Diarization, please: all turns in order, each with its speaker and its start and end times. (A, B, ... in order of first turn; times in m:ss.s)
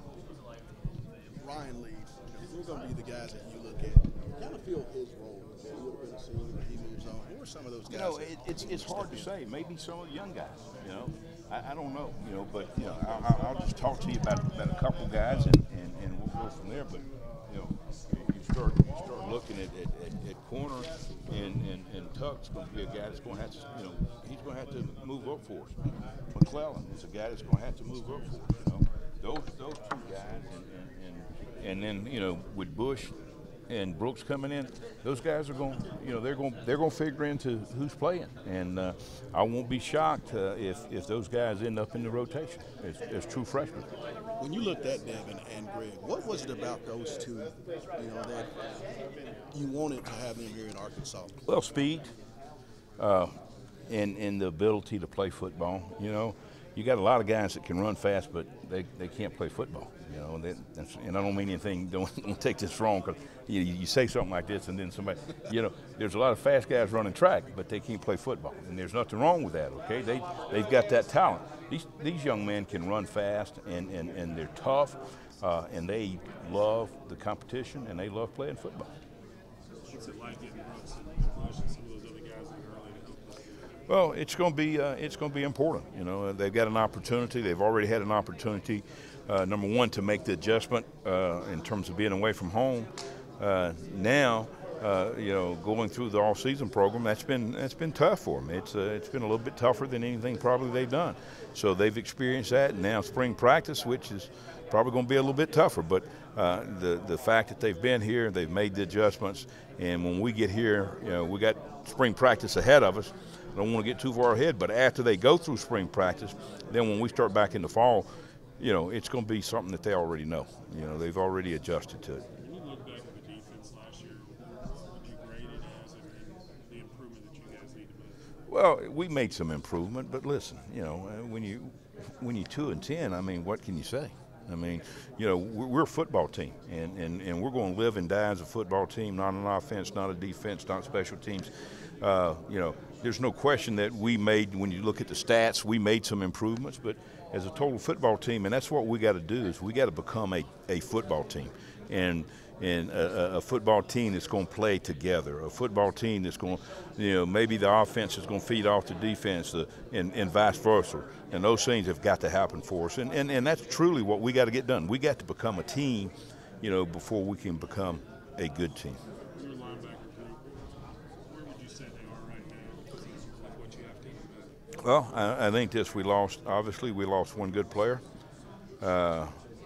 0:01.3-0:09.3 A
0:07.9-0:25.8 B
0:26.3-0:33.1 B
0:33.7-0:43.9 B
0:44.4-0:48.7 A
0:49.5-0:51.4 A
0:51.4-0:52.1 B
0:53.0-0:53.3 B
0:53.9-1:18.9 B
1:19.9-1:23.5 C
1:23.9-1:58.1 B
1:58.6-2:02.2 B
2:02.4-2:04.4 C
2:04.9-2:08.1 C
2:08.5-2:21.5 B
2:22.0-2:49.0 B
2:49.3-2:50.5 C
2:51.3-2:54.4 C
2:54.8-2:58.0 B
2:58.8-2:59.4 B